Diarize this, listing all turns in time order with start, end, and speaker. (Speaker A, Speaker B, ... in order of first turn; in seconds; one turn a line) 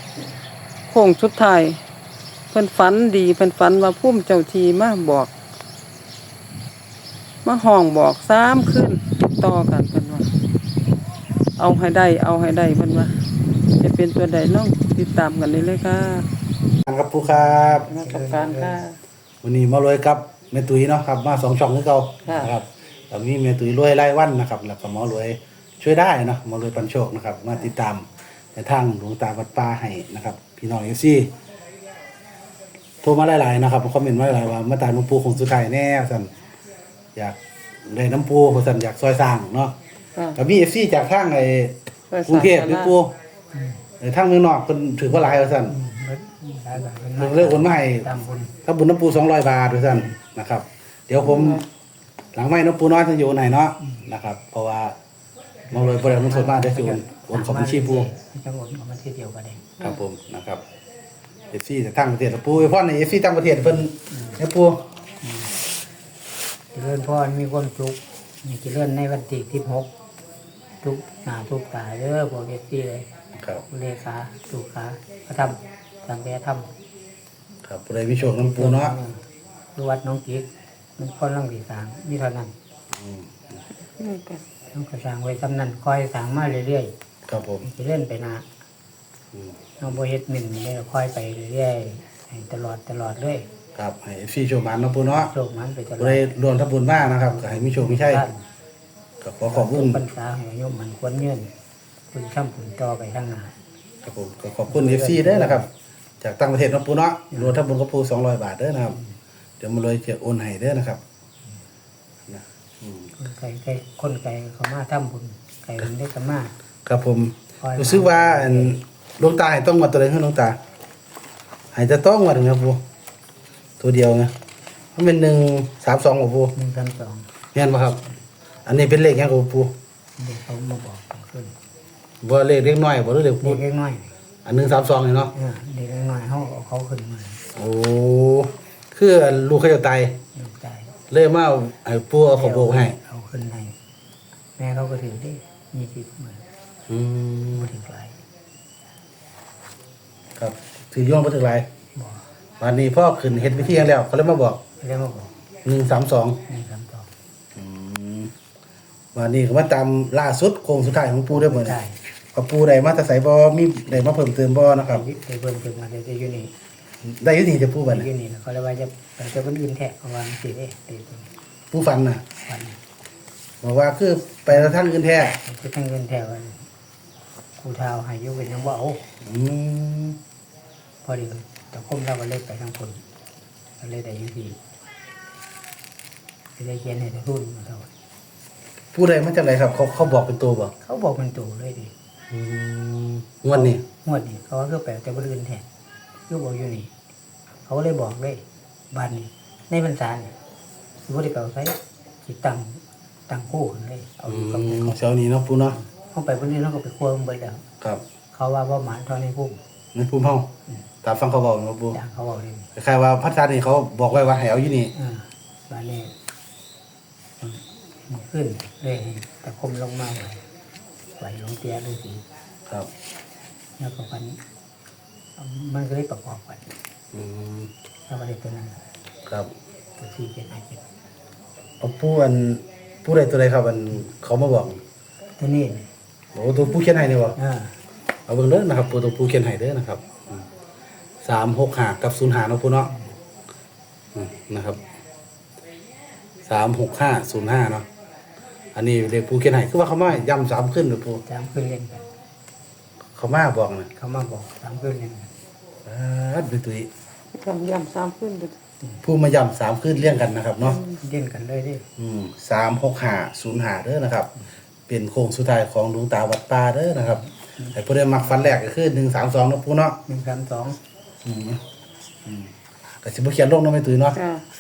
Speaker A: 0.9-1.8
Speaker A: 2.5-5.3
Speaker A: 7.5-10.3
Speaker A: 11.6-13.2
Speaker A: 13.8-16.3
Speaker B: 16.9-17.9
Speaker C: 17.2-18.9
Speaker A: 17.8-19.0
Speaker B: 19.4-31.3
Speaker A: 22.2-22.5
Speaker B: 33.0-36.3
Speaker B: 37.2-39.8
Speaker B: 40.4-43.2
Speaker A: 42.1-43.0
Speaker C: 43.5-43.8
Speaker B: 44.0-45.8
Speaker C: 45.2-48.6
Speaker B: 47.2-48.1
Speaker B: 48.6-51.6
Speaker A: 51.2-51.6
Speaker B: 52.4-55.0
Speaker C: 55.7-59.7
Speaker B: 55.7-58.1
Speaker B: 59.8-60.6
Speaker B: 61.5-64.9
Speaker C: 64.1-64.4
Speaker C: 65.2-65.5
Speaker C: 66.7-69.9
Speaker C: 70.8-73.1
Speaker B: 73.4-73.7
Speaker C: 73.7-76.7
Speaker B: 77.7-79.0
Speaker C: 78.1-79.2
Speaker C: 79.8-82.5
Speaker B: 82.9-83.6
Speaker A: 84.0-84.4
Speaker C: 84.7-86.9
Speaker B: 87.3-87.7
Speaker C: 87.6-88.5
Speaker C: 89.8-93.5
Speaker B: 93.8-95.3
Speaker C: 95.1-96.3
Speaker B: 96.0-98.3
Speaker C: 97.0-98.4
Speaker B: 99.2-100.0
Speaker C: 99.5-101.5
Speaker C: 102.1-103.6
Speaker B: 104.0-105.7
Speaker C: 104.7-105.7
Speaker B: 106.2-109.0
Speaker C: 107.3-107.6
Speaker B: 109.6-111.0
Speaker B: 112.3-113.1
Speaker C: 113.2-116.5
Speaker B: 116.8-120.6
Speaker C: 117.6-118.8
Speaker B: 121.7-122.8
Speaker B: 123.8-124.3
Speaker B: 125.0-126.5
Speaker C: 126.6-127.3
Speaker B: 127.5-128.0
Speaker B: 128.7-129.7
Speaker C: 130.2-131.6
Speaker B: 132.2-133.6
Speaker C: 133.4-134.1
Speaker B: 134.4-135.3
Speaker C: 135.3-137.4
Speaker B: 137.6-140.2
Speaker C: 140.3-140.9
Speaker B: 141.1-143.0
Speaker C: 142.3-143.8
Speaker C: 144.6-146.4
Speaker B: 146.9-147.7
Speaker C: 147.5-148.2
Speaker B: 150.4-151.7
Speaker C: 151.9-152.2
Speaker B: 152.6-154.6
Speaker C: 153.4-153.9
Speaker C: 154.8-155.3
Speaker B: 155.7-156.4
Speaker C: 156.5-157.1
Speaker B: 157.6-158.3
Speaker B: 159.2-161.8
Speaker C: 161.3-162.0
Speaker B: 162.3-165.1
Speaker C: 164.8-166.5
Speaker B: 167.0-168.1
Speaker C: 167.8-171.3
Speaker B: 171.7-172.2
Speaker C: 172.4-172.8
Speaker B: 173.6-175.4
Speaker C: 174.5-174.8
Speaker C: 175.4-176.7
Speaker C: 177.6-179.0
Speaker B: 179.2-180.2
Speaker C: 181.0-183.0
Speaker C: 183.8-184.6
Speaker C: 186.6-187.9
Speaker B: 188.9-190.7
Speaker C: 190.8-191.9
Speaker B: 192.3-193.8
Speaker C: 193.5-195.7
Speaker C: 196.3-196.9
Speaker C: 197.7-200.4
Speaker C: 201.0-205.0
Speaker B: 204.3-205.8
Speaker C: 205.8-207.6
Speaker C: 208.3-209.6
Speaker B: 209.9-210.5
Speaker B: 211.0-212.0
Speaker C: 211.9-212.7
Speaker B: 212.8-214.9
Speaker C: 214.9-216.1
Speaker C: 217.4-220.4
Speaker C: 221.2-222.2
Speaker C: 223.8-224.4
Speaker C: 225.4-226.7
Speaker B: 227.1-227.7
Speaker C: 228.1-228.8
Speaker C: 230.0-230.8
Speaker B: 231.8-234.8
Speaker C: 235.4-235.9
Speaker B: 236.3-237.4
Speaker C: 237.4-237.8
Speaker B: 238.3-240.5
Speaker B: 241.2-242.9
Speaker B: 244.2-244.8
Speaker B: 246.4-247.9
Speaker B: 248.8-251.2
Speaker C: 251.2-252.1
Speaker B: 253.2-253.9
Speaker C: 254.0-255.3
Speaker B: 255.8-256.9
Speaker A: 257.3-258.6
Speaker B: 259.0-260.8
Speaker A: 260.7-261.0
Speaker C: 261.0-261.9
Speaker B: 262.0-264.3
Speaker B: 264.9-270.0
Speaker C: 270.1-270.8
Speaker B: 271.2-271.6
Speaker B: 272.2-272.5
Speaker B: 273.0-274.2
Speaker A: 274.2-274.4